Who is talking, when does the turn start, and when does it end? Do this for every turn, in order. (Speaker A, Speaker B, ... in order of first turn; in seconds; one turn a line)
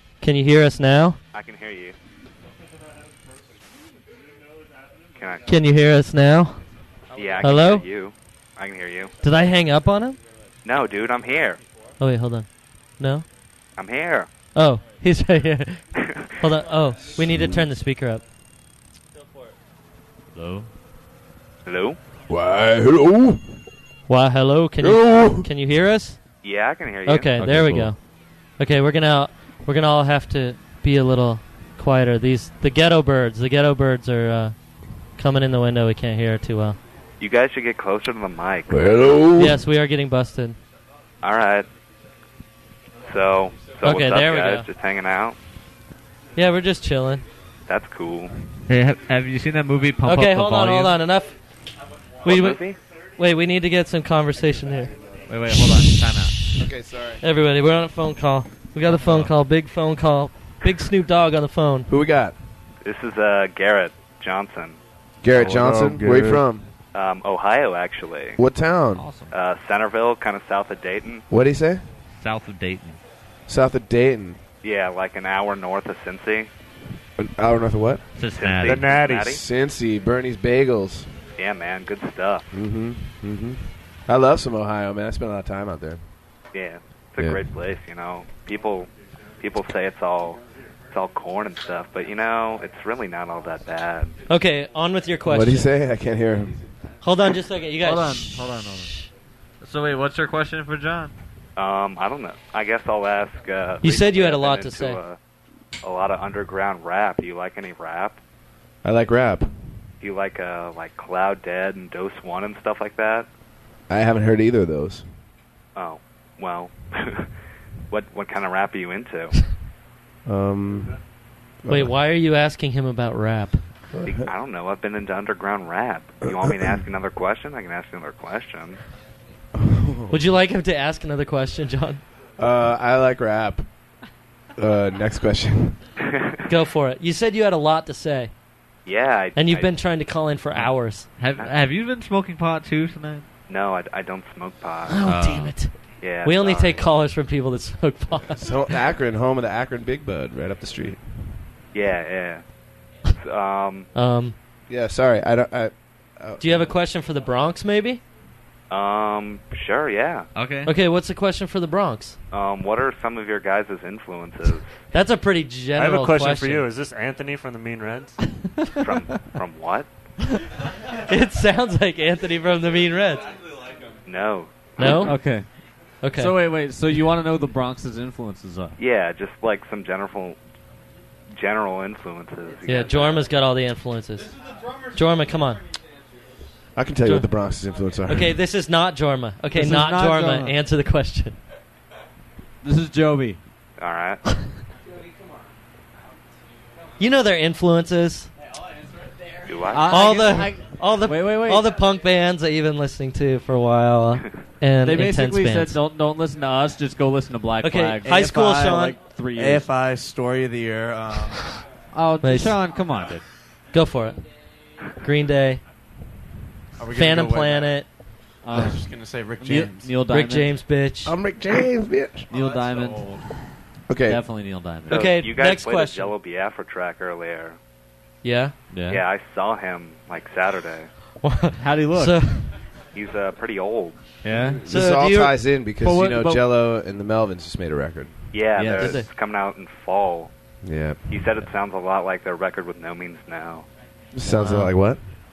Speaker A: 0.2-1.2
Speaker B: 1.3-1.9
Speaker B: 5.2-5.5
Speaker A: 5.4-6.7
Speaker B: 7.1-9.1
Speaker A: 7.4-7.8
Speaker A: 9.2-10.2
Speaker B: 10.6-11.6
Speaker A: 12.0-13.2
Speaker B: 13.8-14.3
Speaker A: 14.5-18.2
Speaker C: 17.1-17.7
Speaker D: 20.3-20.7
Speaker B: 21.6-22.0
Speaker C: 22.3-23.6
Speaker A: 24.1-26.4
Speaker C: 24.8-25.5
Speaker B: 26.4-27.4
Speaker A: 27.0-36.8
Speaker D: 27.4-27.9
Speaker B: 37.2-39.2
Speaker C: 38.7-39.6
Speaker A: 39.3-40.6
Speaker B: 41.2-41.7
Speaker B: 43.0-45.4
Speaker A: 43.8-44.7
Speaker A: 46.3-47.2
Speaker B: 47.7-48.5
Speaker D: 48.7-51.0
Speaker A: 50.0-51.6
Speaker A: 52.2-54.9
Speaker B: 52.2-52.8
Speaker D: 55.3-56.4
Speaker A: 55.5-56.0
Speaker C: 56.5-57.2
Speaker A: 57.2-61.9
Speaker D: 58.9-59.3
Speaker C: 61.9-62.4
Speaker B: 62.8-64.8
Speaker C: 65.2-66.7
Speaker E: 65.3-66.5
Speaker B: 66.9-68.4
Speaker C: 68.3-69.1
Speaker D: 69.0-69.3
Speaker B: 69.3-71.2
Speaker C: 71.3-71.8
Speaker D: 72.2-73.0
Speaker C: 73.5-74.4
Speaker B: 74.6-76.5
Speaker C: 77.2-78.0
Speaker D: 78.2-78.9
Speaker B: 78.3-79.4
Speaker E: 78.6-79.4
Speaker C: 79.1-81.2
Speaker B: 81.3-82.5
Speaker C: 82.5-86.0
Speaker B: 86.5-88.9
Speaker C: 87.2-87.5
Speaker B: 89.4-94.2
Speaker A: 94.3-95.7
Speaker C: 95.2-96.6
Speaker A: 97.0-98.6
Speaker D: 97.8-99.1
Speaker D: 99.6-101.1
Speaker B: 101.5-105.2
Speaker A: 103.8-105.0
Speaker B: 105.8-108.2
Speaker C: 108.8-109.9
Speaker B: 110.0-113.3
Speaker C: 113.9-115.1
Speaker B: 115.7-117.3
Speaker B: 117.9-119.5
Speaker C: 120.2-121.0
Speaker C: 121.6-122.0
Speaker A: 121.7-123.8
Speaker C: 123.9-124.3
Speaker B: 124.0-128.8
Speaker C: 126.2-126.7
Speaker C: 129.5-130.2
Speaker A: 130.1-132.0
Speaker C: 132.4-133.9
Speaker C: 134.6-135.8
Speaker A: 136.5-138.3
Speaker B: 138.8-139.8
Speaker A: 139.3-141.1
Speaker D: 140.5-143.2
Speaker B: 141.3-141.6
Speaker B: 143.5-145.1
Speaker A: 144.9-148.6
Speaker D: 145.0-145.7
Speaker B: 146.0-146.8
Speaker C: 148.2-151.4
Speaker B: 151.7-152.5
Speaker B: 153.1-153.9
Speaker A: 153.9-154.3
Speaker C: 154.7-156.8
Speaker A: 156.4-158.0
Speaker B: 158.7-160.3
Speaker D: 160.3-160.7
Speaker A: 160.6-162.2
Speaker B: 162.3-164.8
Speaker A: 164.9-166.7
Speaker E: 165.7-168.4
Speaker B: 168.8-169.9
Speaker A: 171.1-173.3
Speaker B: 174.1-175.0
Speaker A: 174.8-175.4
Speaker D: 174.8-175.6
Speaker A: 176.0-176.4
Speaker D: 176.1-178.8
Speaker B: 178.8-180.4
Speaker B: 181.3-183.3
Speaker A: 182.6-184.3
Speaker A: 184.9-185.6
Speaker C: 186.7-188.4
Speaker A: 187.0-187.3
Speaker A: 188.1-191.4
Speaker D: 189.5-190.6
Speaker D: 192.6-193.4
Speaker B: 193.8-194.3
Speaker A: 197.0-198.3
Speaker B: 199.4-200.3
Speaker D: 199.7-201.8
Speaker A: 199.8-205.8
Speaker D: 204.8-209.7
Speaker A: 207.6-209.0
Speaker F: 209.3-211.6
Speaker D: 211.9-213.2
Speaker A: 212.2-212.6
Speaker A: 213.7-214.2
Speaker A: 215.0-215.6
Speaker F: 216.8-217.9
Speaker A: 216.9-218.0
Speaker D: 218.4-220.6
Speaker F: 218.4-219.9
Speaker A: 220.1-221.2
Speaker C: 221.0-222.3
Speaker D: 222.3-223.5
Speaker F: 222.3-223.4
Speaker C: 223.9-224.4
Speaker D: 224.0-225.0
Speaker B: 224.9-227.6
Speaker A: 224.9-226.1
Speaker A: 228.2-228.5
Speaker D: 228.7-229.0
Speaker B: 228.9-230.9
Speaker A: 231.2-232.5
Speaker D: 231.6-232.4
Speaker B: 232.9-234.1
Speaker D: 234.2-234.7
Speaker C: 234.6-238.9
Speaker A: 234.7-235.4
Speaker D: 235.8-236.4
Speaker B: 238.3-240.6
Speaker D: 238.5-239.0
Speaker A: 238.7-239.1
Speaker C: 240.6-241.2
Speaker B: 241.1-243.7
Speaker C: 244.1-245.0
Speaker A: 244.3-244.7